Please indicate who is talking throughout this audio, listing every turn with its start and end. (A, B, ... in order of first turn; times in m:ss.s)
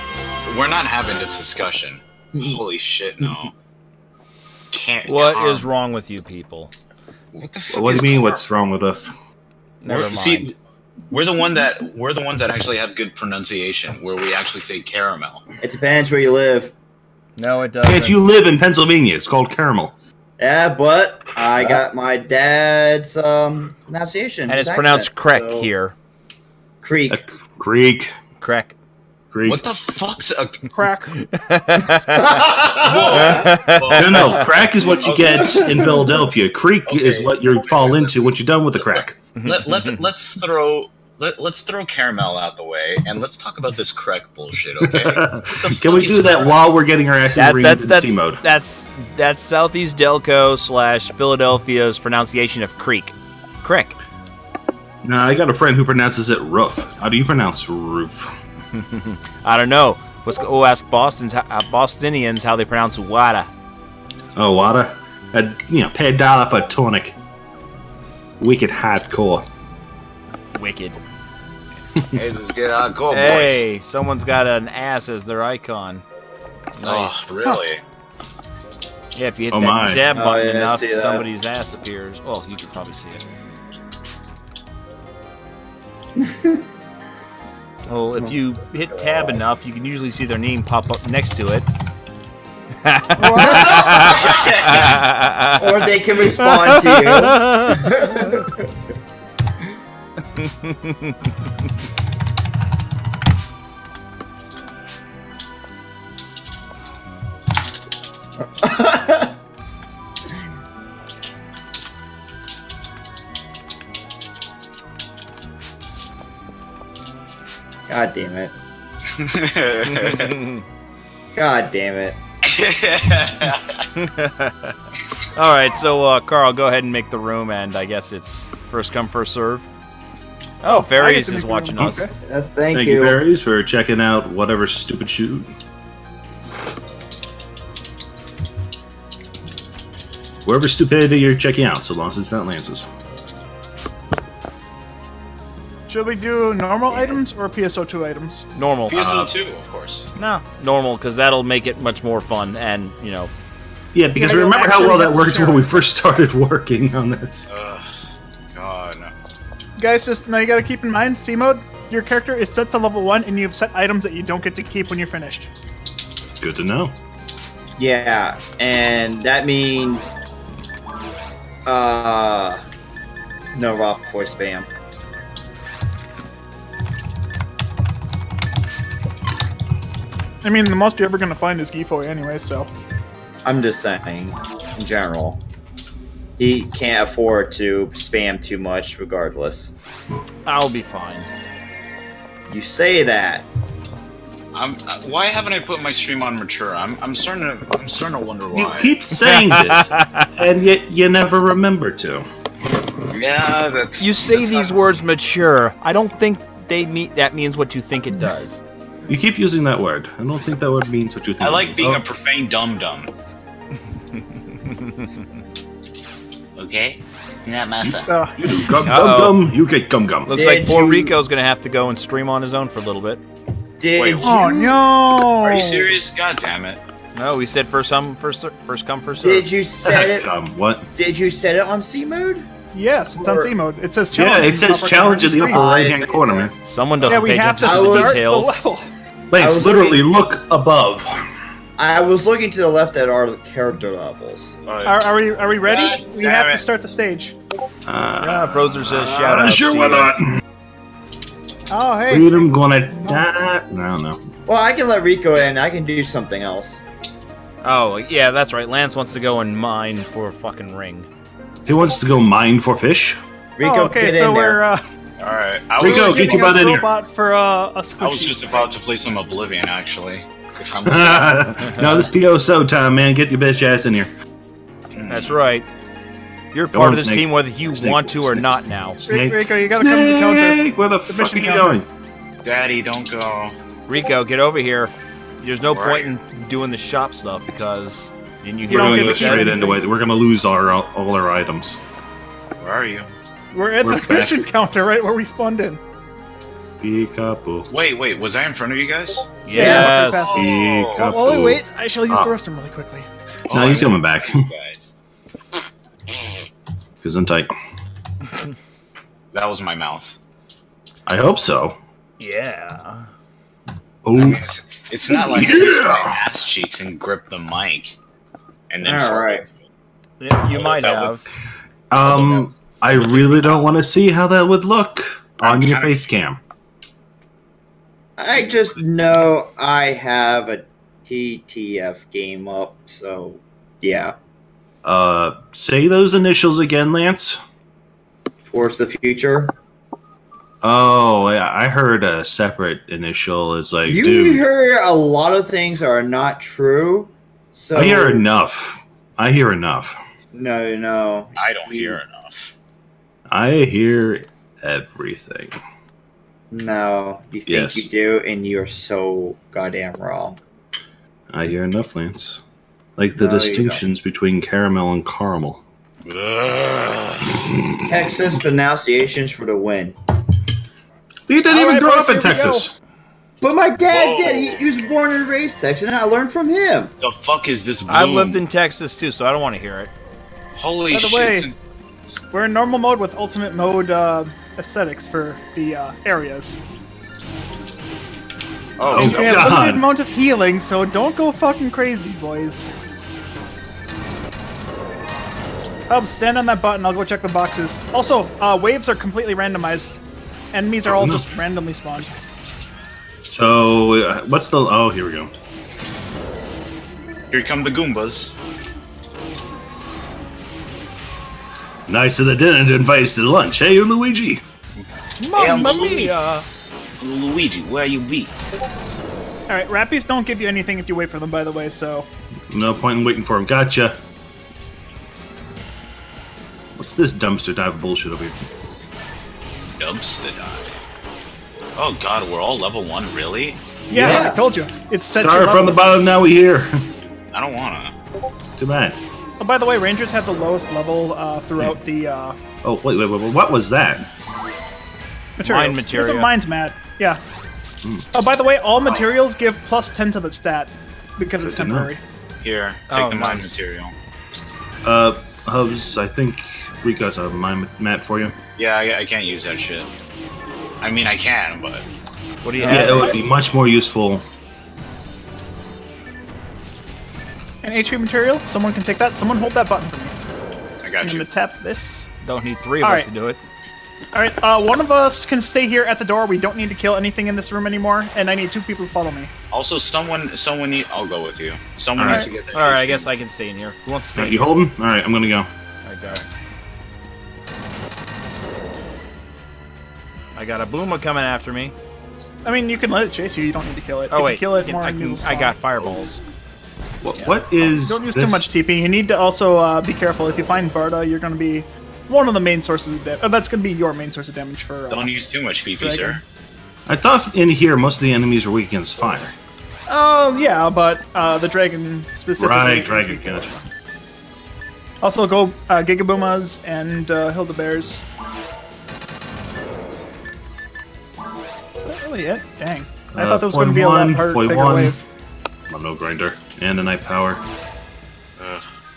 0:00.4-0:03.5 A
0:04.7-0:05.7 A
0:05.1-0:06.7 B
0:07.3-0:08.4 A
0:07.7-0:09.1 C
0:09.8-0:10.5 B
0:09.9-0:10.5 A
0:11.1-0:15.4 A
0:15.6-0:16.7 D
0:17.4-0:18.2 B
0:17.8-0:19.9 C
0:20.4-0:25.7 D
0:24.5-0:25.9 B
0:26.8-0:27.2 D
0:27.1-0:28.1 C
0:28.4-0:28.7 B
0:29.3-0:29.7 C
0:29.4-0:30.7 A
0:30.7-0:31.1 E
0:31.1-0:32.3 B
0:32.2-0:33.5 D
0:32.6-0:34.5 A
0:33.2-0:34.4 B
0:33.9-0:39.2 C
0:35.0-0:35.8 A
0:35.4-0:35.8 D
0:36.9-0:46.7 A
0:39.4-0:40.0 B
0:44.8-0:48.4 C
0:47.3-0:54.0 B
0:55.0-0:58.3 C
0:58.7-1:03.5 B
1:04.4-1:07.1 C
1:08.4-1:09.4 C
1:10.5-1:11.0 B
1:12.1-1:13.7 A
1:13.1-1:16.0 B
1:16.8-1:17.3 B
1:16.8-1:17.8 A
1:19.1-1:23.2 B
1:19.5-1:20.0 C
1:20.1-1:21.3 D
1:26.2-1:26.6 D
1:27.9-1:31.6 B
1:28.9-1:29.4 D
1:32.8-1:35.7 B
1:33.2-1:33.7 E
1:33.3-1:34.7 D
1:33.5-1:35.0 A
1:35.6-1:38.7 D
1:36.4-1:38.0 B
1:40.3-1:41.5 B
1:48.4-1:49.3 D
1:57.9-1:58.5 D
1:59.1-2:00.4 A
1:59.9-2:00.6 B
2:01.3-2:02.2 D
2:02.4-2:03.9 A
2:03.9-2:04.7 B
2:05.4-2:09.6 B
2:10.6-2:12.0 B
2:10.6-2:12.1 E
2:12.2-2:13.2 D
2:12.7-2:15.5 C
2:20.4-2:22.9 C
2:25.9-2:28.5 E
2:26.9-2:27.2 D
2:28.5-2:29.0 B
2:28.9-2:30.1 A
2:28.9-2:29.3 C
2:30.2-2:33.3 B
2:33.9-2:37.4 C
2:34.2-2:35.8 E
2:37.5-2:38.0 A
2:38.5-2:39.1 A
2:39.8-2:45.5 E
2:46.4-2:46.9 C
2:47.8-2:50.0 D
2:51.6-2:52.6 D
2:53.5-2:54.7 D
3:00.4-3:02.7 E
3:03.4-3:05.4 D
3:06.4-3:09.7 D
3:10.4-3:11.3 B
3:12.5-3:13.5 D
3:14.5-3:18.9 A
3:18.5-3:22.3 C
3:19.2-3:20.3 B
3:23.1-3:25.0 A
3:24.0-3:28.6 B
3:29.1-3:32.0 C
3:31.4-3:33.1 A
3:34.1-3:35.1 B
3:36.6-3:38.2 A
3:37.8-3:40.3 C
3:38.0-3:38.7 E
3:38.7-3:39.4 B
3:40.2-3:43.2 B
3:40.3-3:41.2 D
3:43.8-3:44.8 D
3:44.0-3:44.4 B
3:44.2-3:45.9 E
3:45.4-3:46.8 A
3:47.1-3:49.4 B
3:49.2-3:50.3 D
3:49.8-3:50.9 C
3:51.0-3:52.5 D
3:52.7-3:55.6 E
3:53.2-3:53.5 D
3:54.1-3:56.5 C
3:55.4-3:56.5 D
3:56.6-3:58.6 B
3:57.0-3:58.9 E
3:57.6-3:58.2 D
3:59.3-4:01.2 C
3:59.4-4:00.0 D
4:01.8-4:04.5 D
4:04.6-4:06.6 A
4:04.8-4:07.4 E
4:07.9-4:10.4 C
4:08.2-4:10.1 B
4:11.7-4:12.5 E
4:12.1-4:14.2 C
4:13.0-4:13.4 E
4:14.4-4:16.8 D
4:17.6-4:21.1 B
4:21.7-4:23.2 C
4:23.6-4:24.6 D
4:23.6-4:24.8 E
4:25.2-4:26.6 A
4:25.8-4:26.9 C
4:25.8-4:28.7 E
4:28.0-4:31.7 A
4:30.8-4:34.1 C
4:34.9-4:35.4 A
4:35.1-4:35.6 B
4:36.5-4:39.0 B
4:36.7-4:41.9 C
4:39.0-4:41.8 E
4:42.4-4:43.5 A
4:43.9-4:49.7 B
4:45.7-4:46.1 A
4:48.7-4:49.8 E
4:48.7-4:51.8 C
4:52.6-4:53.1 A
4:53.5-4:55.8 E
4:53.8-4:54.4 C
4:56.8-4:57.7 C
4:57.7-4:59.4 A
4:59.4-5:00.4 B
4:59.5-5:03.1 E
4:59.5-4:59.9 D
5:00.2-5:01.0 A
5:00.3-5:02.4 C
5:03.5-5:04.9 A
5:03.5-5:04.5 C
5:07.0-5:07.5 C
5:09.3-5:10.2 A
5:11.1-5:11.8 C
5:12.2-5:13.1 B
5:14.0-5:14.4 C
5:14.1-5:17.9 A
5:15.1-5:16.2 C
5:18.7-5:19.5 A
5:18.8-5:19.4 D
5:20.2-5:21.2 B
5:20.5-5:21.2 A
5:21.9-5:26.4 C
5:22.0-5:23.7 A
5:25.4-5:26.1 A
5:28.2-5:34.2 D
5:28.3-5:28.9 A
5:34.8-5:37.4 C
5:38.5-5:39.5 D
5:40.6-5:44.4 C
5:43.9-5:48.2 D
5:47.7-5:50.0 C
5:50.3-5:52.0 D
5:51.4-5:52.5 A
5:53.3-5:55.6 C
5:56.5-6:00.4 D
5:57.5-5:57.8 C
6:01.3-6:02.4 C
6:03.0-6:05.6 C
6:03.2-6:03.8 D
6:06.0-6:07.4 A
6:07.5-6:07.8 C
6:07.8-6:10.0 D
6:11.3-6:12.7 C
6:11.5-6:12.6 E
6:13.4-6:16.9 D
6:13.9-6:14.8 A
6:17.0-6:18.4 A
6:17.9-6:19.9 B
6:20.6-6:21.6 A
6:20.9-6:21.5 E
6:22.3-6:26.6 E
6:28.8-6:29.8 A
6:28.9-6:32.7 E
6:28.9-6:29.8 C
6:35.9-6:40.0 E
6:40.5-6:42.1 E
6:40.8-6:41.3 C
6:43.3-6:45.3 C
6:47.3-6:48.4 A
6:51.9-6:54.4 C
6:55.2-6:56.4 B
6:55.3-6:56.4 E
6:55.4-6:56.1 A
6:57.0-6:58.3 A
6:59.5-7:02.1 E
7:02.5-7:04.0 C
7:06.8-7:08.5 C
7:09.8-7:10.7 A
7:11.8-7:13.6 A
7:13.9-7:15.8 E
7:13.9-7:14.4 C
7:14.0-7:14.4 D
7:15.2-7:16.8 C
7:17.3-7:17.9 A
7:18.6-7:19.0 C
7:19.4-7:22.4 E
7:22.6-7:24.1 C
7:25.4-7:27.2 E
7:25.4-7:26.3 B
7:28.1-7:32.0 E
7:28.8-7:29.1 A
7:31.4-7:31.9 C
7:32.4-7:33.9 A
7:32.9-7:33.5 B
7:34.8-7:38.3 C
7:38.6-7:39.9 A
7:40.8-7:41.8 A
7:42.4-7:43.2 B
7:42.6-7:44.2 C
7:47.6-7:50.1 E
7:50.8-7:51.3 A
7:51.0-7:52.1 E
7:52.2-7:53.4 B
7:52.8-7:53.1 E
7:54.1-7:59.3 E
7:59.5-8:03.0 A
8:02.0-8:02.2 C
8:02.0-8:02.3 E
8:02.1-8:04.5 B
8:04.1-8:05.5 C
8:05.8-8:06.2 B
8:10.3-8:11.7 B
8:12.4-8:15.5 E
8:14.1-8:16.2 B
8:17.0-8:18.4 C
8:17.2-8:25.1 E
8:24.9-8:26.2 A
8:25.8-8:26.2 E
8:26.9-8:29.3 C
8:29.9-8:33.6 E
8:32.4-8:33.5 C
8:35.0-8:38.0 E
8:41.8-8:45.0 E
8:43.1-8:44.9 C
8:45.7-8:47.4 C
8:48.4-8:48.7 A